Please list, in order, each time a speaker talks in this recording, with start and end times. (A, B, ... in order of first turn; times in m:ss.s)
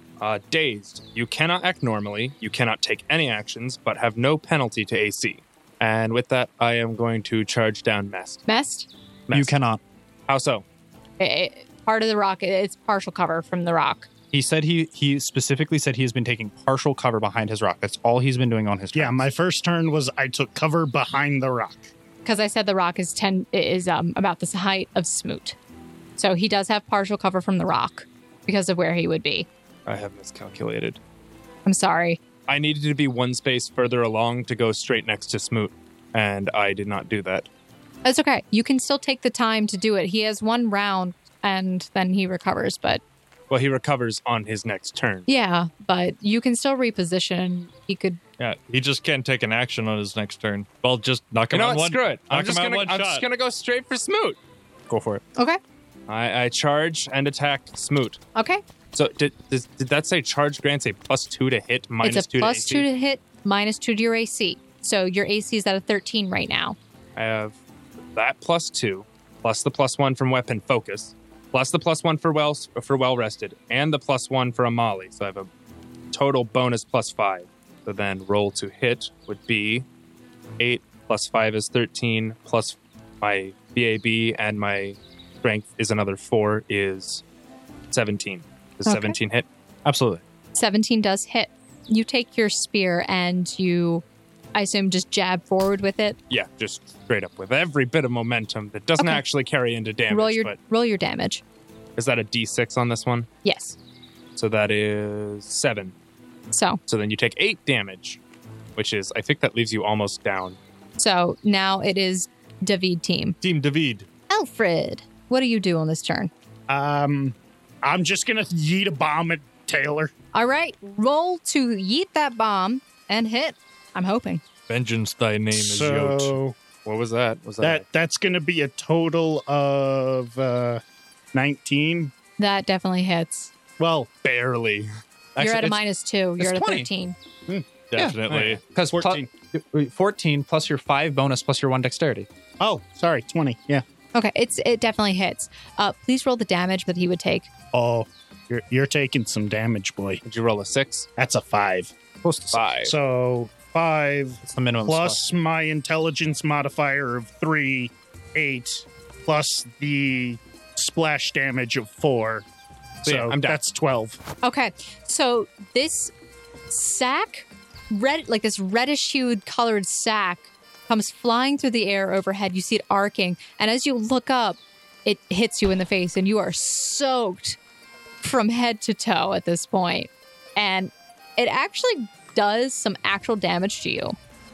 0:00.2-0:08.4 A
0:08.5-0:08.9 B
0:09.3-0:09.5 A
0:09.3-0:09.8 C
0:10.3-0:10.6 A
0:11.2-0:14.1 B
0:14.3-0:19.3 C
0:19.0-0:21.9 D
0:22.2-0:25.6 B
0:26.2-0:29.5 B
0:29.9-0:31.0 A
0:31.7-0:32.2 B
0:32.5-0:37.5 A
0:38.0-0:43.0 B
0:43.5-0:45.3 A
0:45.3-0:48.2 B
0:48.4-0:53.3 E
0:51.5-0:54.4 A
0:54.9-0:55.2 C
0:56.1-0:58.2 A
0:58.4-0:58.6 B
0:58.9-1:02.9 A
1:02.0-1:06.8 B
1:07.2-1:07.6 A
1:08.1-1:15.5 A
1:16.1-1:19.9 A
1:20.6-1:27.2 A
1:27.9-1:29.5 A
1:28.9-1:29.2 B
1:29.9-1:30.2 C
1:30.6-1:34.0 B
1:34.6-1:36.2 B
1:36.3-1:40.6 A
1:39.0-1:39.2 B
1:40.1-1:41.4 B
1:42.0-1:43.3 A
1:43.4-1:43.8 B
1:44.4-1:45.9 A
1:46.5-1:46.8 B
1:46.9-1:48.2 A
1:48.8-1:50.6 A
1:51.0-1:53.4 B
1:53.4-1:54.1 E
1:54.3-1:56.3 B
1:56.7-2:00.1 D
2:00.3-2:04.4 B
2:04.7-2:06.4 E
2:05.5-2:06.6 D
2:06.8-2:07.9 A
2:07.6-2:10.8 D
2:11.3-2:12.1 D
2:12.4-2:13.5 B
2:13.8-2:14.2 D
2:14.2-2:14.9 A
2:15.4-2:15.8 C
2:15.4-2:17.1 B
2:16.4-2:16.9 C
2:17.9-2:18.6 E
2:18.0-2:22.3 C
2:18.3-2:18.6 A
2:18.9-2:19.3 D
2:22.6-2:23.8 D
2:24.1-2:27.5 B
2:27.7-2:30.2 D
2:30.2-2:31.1 A
2:31.2-2:32.0 D
2:32.2-2:32.6 C
2:32.5-2:32.9 A
2:32.8-2:42.4 D
2:34.4-2:35.2 C
2:43.0-2:44.2 D
2:43.0-2:43.6 A
2:44.4-2:46.1 B
2:46.7-2:57.6 B
2:58.2-3:04.2 B